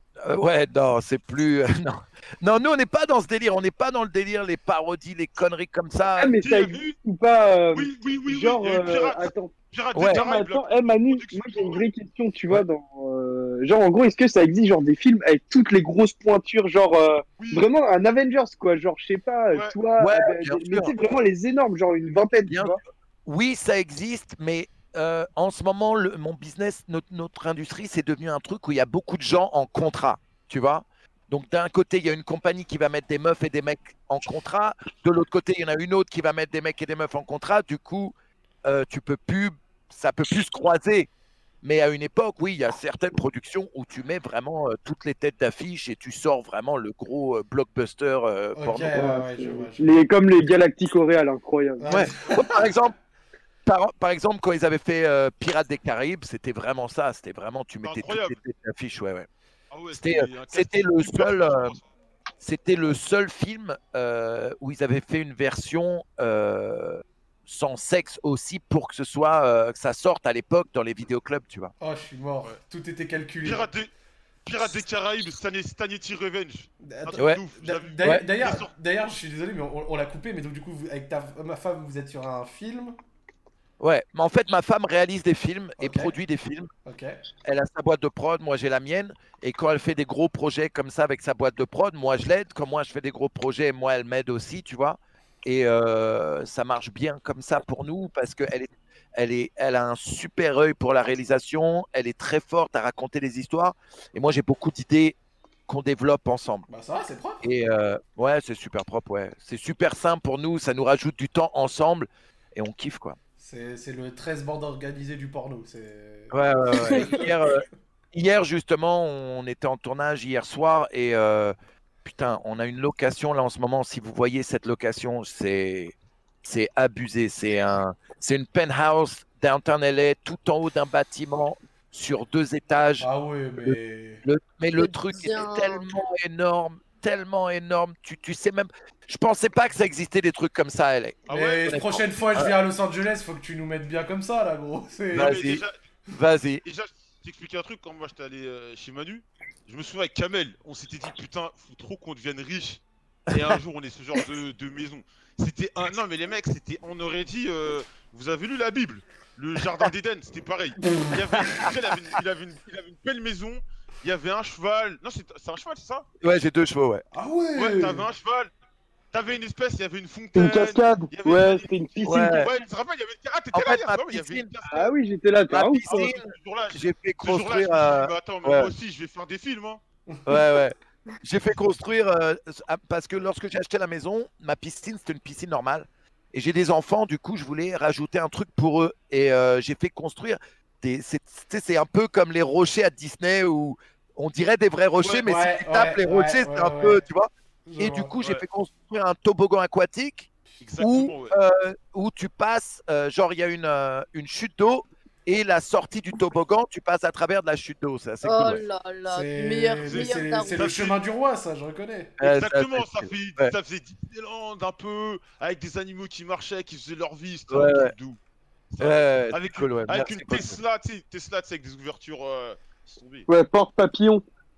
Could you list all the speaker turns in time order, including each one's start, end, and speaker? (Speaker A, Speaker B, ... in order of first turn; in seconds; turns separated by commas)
Speaker A: 0.2-6.4, Speaker B: 6.2-9.5, Speaker C: 6.4-7.0, Speaker C: 7.7-11.8, Speaker A: 9.9-10.2, Speaker B: 10.1-22.8, Speaker C: 17.4-17.6, Speaker A: 20.0-20.9, Speaker A: 22.5-41.1, Speaker A: 41.6-49.1, Speaker D: 48.5-49.9, Speaker B: 48.9-51.9, Speaker D: 51.8-52.4, Speaker A: 51.9-52.9, Speaker A: 53.6-59.3, Speaker C: 57.8-58.4, Speaker C: 59.7-61.8, Speaker A: 59.9-61.8, Speaker A: 62.4-71.7, Speaker D: 71.8-73.7, Speaker C: 73.4-73.9, Speaker C: 74.4-78.7, Speaker D: 76.8-83.0, Speaker A: 77.2-77.4, Speaker A: 78.0-78.5, Speaker A: 83.8-86.7, Speaker D: 85.8-86.1, Speaker D: 86.8-87.2, Speaker A: 87.4-105.2, Speaker A: 105.7-106.7, Speaker D: 106.7-107.4, Speaker A: 107.4-113.2, Speaker D: 113.4-117.3, Speaker A: 116.3-133.1, Speaker D: 133.0-134.2, Speaker A: 133.6-142.6, Speaker E: 134.8-135.8, Speaker C: 141.3-141.8, Speaker D: 141.3-145.4, Speaker A: 145.1-145.6, Speaker C: 145.2-145.7, Speaker A: 146.1-146.6, Speaker C: 146.6-166.1, Speaker A: 166.2-167.0, Speaker D: 167.1-168.0, Speaker C: 167.6-168.5, Speaker C: 169.1-174.9, Speaker B: 170.3-172.5, Speaker A: 172.1-172.5, Speaker A: 173.5-174.5, Speaker B: 174.7-176.1, Speaker A: 175.5-178.7, Speaker C: 175.8-179.8, Speaker A: 180.2-208.7, Speaker D: 195.1-197.0, Speaker D: 197.7-198.1, Speaker C: 200.6-201.3, Speaker E: 208.2-210.7, Speaker D: 209.1-212.1, Speaker C: 209.8-211.0, Speaker A: 212.2-213.5, Speaker C: 212.2-218.2, Speaker A: 217.5-217.9, Speaker C: 218.7-223.3, Speaker A: 218.8-220.6, Speaker B: 223.3-224.2